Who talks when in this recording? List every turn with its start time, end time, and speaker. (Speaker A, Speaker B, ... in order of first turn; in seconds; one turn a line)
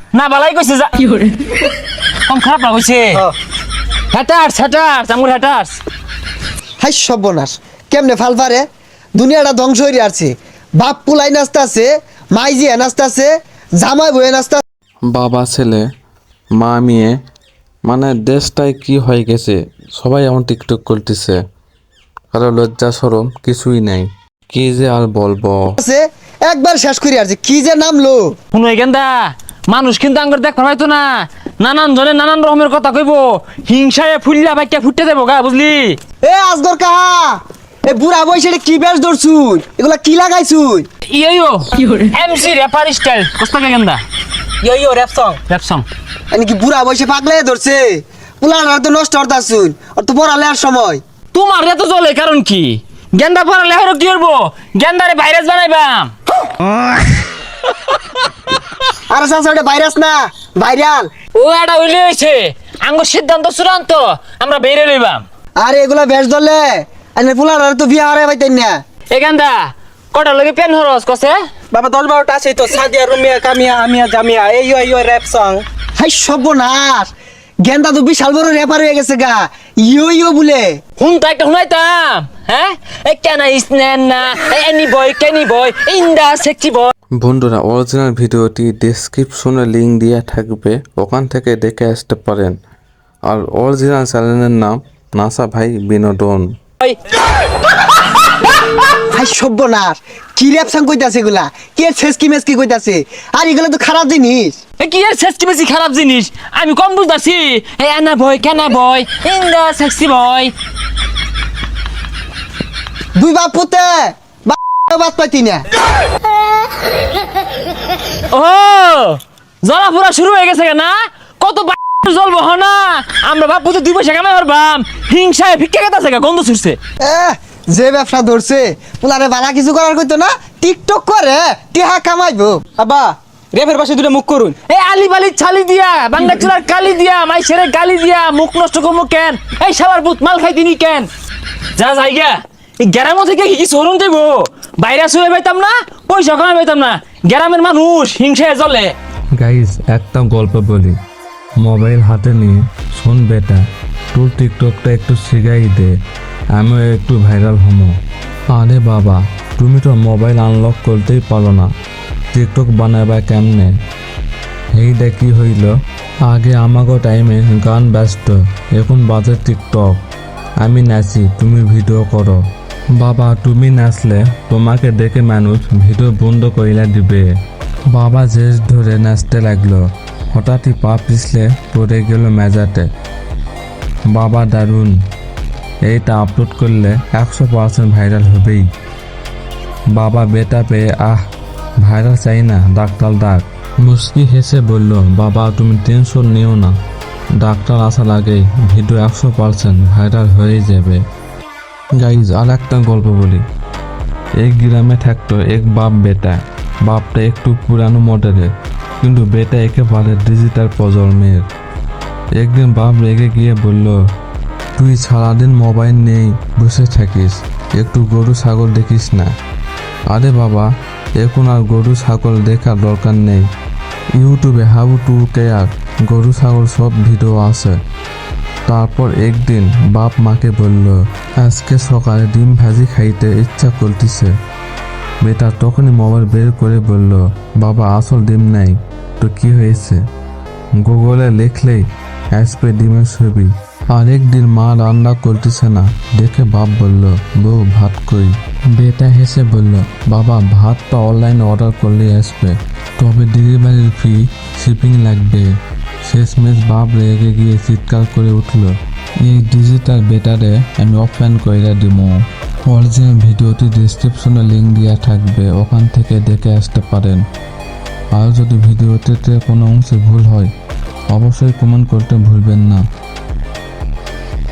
Speaker A: 0.1-1.4
Speaker A: 2.3-3.2
Speaker A: 4.1-5.8
Speaker B: 6.8-14.6
Speaker C: 15.1-15.8
Speaker C: 16.5-17.1
Speaker C: 17.9-21.4
Speaker C: 22.3-25.7
Speaker B: 25.8-28.3
Speaker A: 28.5-36.0
Speaker B: 36.2-40.9
Speaker A: 41.1-44.0
Speaker D: 44.6-45.4
Speaker A: 45.5-45.9
Speaker B: 46.3-51.0
Speaker A: 51.3-56.1
Speaker B: 59.1-61.1
Speaker A: 61.3-65.2
Speaker B: 65.6-68.8
Speaker A: 69.1-71.4
Speaker D: 71.7-75.6
Speaker B: 76.0-77.1
Speaker B: 77.6-80.8
Speaker A: 81.0-86.9
Speaker C: 87.2-92.5
Speaker C: 93.2-96.4
Speaker B: 99.1-104.6
Speaker A: 104.8-110.5
Speaker B: 113.1-115.6
Speaker A: 118.3-126.8
Speaker B: 127.0-132.6
Speaker D: 132.8-134.6
Speaker A: 134.7-141.1
Speaker A: 141.8-148.9
Speaker C: 149.3-150.9
Speaker C: 151.6-155.9
Speaker C: 156.5-157.9
Speaker C: 158.5-161.7
Speaker C: 162.3-163.7
Speaker C: 164.7-165.7
Speaker C: 166.3-170.0
Speaker C: 170.6-172.4
Speaker C: 173.0-177.2
Speaker C: 177.9-179.8
Speaker C: 180.3-182.9
Speaker C: 184.1-184.9
Speaker C: 185.8-188.7
Speaker C: 189.9-191.2
Speaker C: 191.8-196.7
Speaker C: 197.4-201.0
Speaker C: 202.0-203.4
Speaker C: 204.4-208.5
Speaker C: 209.0-211.4
Speaker C: 212.4-214.0
Speaker C: 214.8-219.3
Speaker C: 220.1-223.4
Speaker C: 224.2-227.8
Speaker C: 228.7-234.3
Speaker C: 235.2-240.0
Speaker C: 240.8-241.8
Speaker C: 242.3-255.5
Speaker C: 256.0-267.2
Speaker C: 268.1-270.5
Speaker C: 271.1-272.8